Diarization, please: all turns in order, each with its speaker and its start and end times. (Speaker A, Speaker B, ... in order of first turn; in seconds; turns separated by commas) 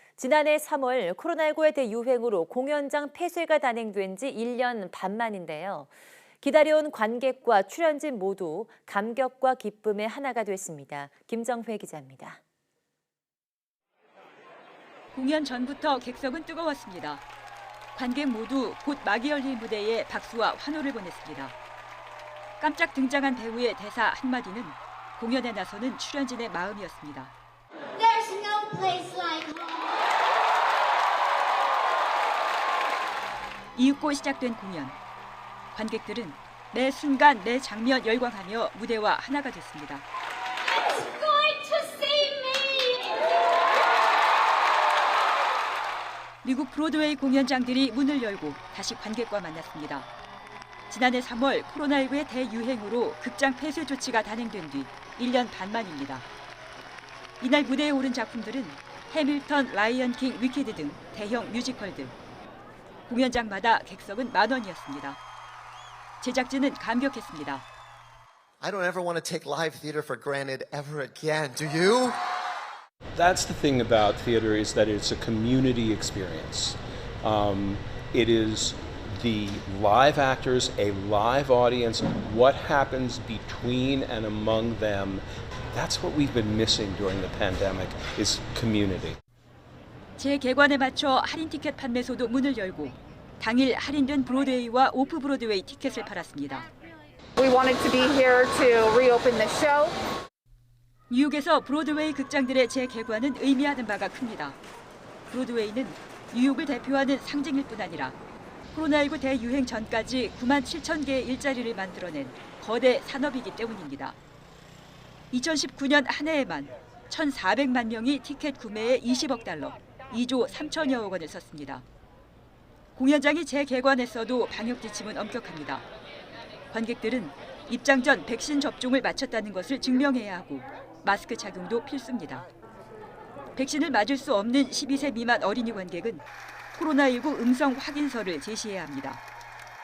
Speaker A: 0.2-5.9, Speaker A: 6.4-12.4, Speaker B: 15.1-17.2, Speaker B: 17.9-21.5, Speaker B: 22.6-27.3, Speaker C: 27.9-30.0, Speaker B: 33.7-35.0, Speaker B: 35.7-40.0, Speaker C: 40.7-43.4, Speaker B: 46.4-50.1, Speaker B: 50.9-56.3, Speaker B: 57.4-62.1, Speaker B: 63.1-65.2, Speaker B: 66.2-67.6, Speaker D: 68.6-72.2, Speaker E: 73.2-89.2, Speaker B: 90.2-96.7, Speaker F: 97.4-99.9, Speaker B: 101.1-104.6, Speaker B: 105.3-108.2, Speaker B: 108.7-114.2, Speaker B: 115.3-121.8, Speaker B: 122.9-125.8, Speaker B: 126.7-132.5, Speaker B: 133.6-136.2, Speaker B: 136.7-139.2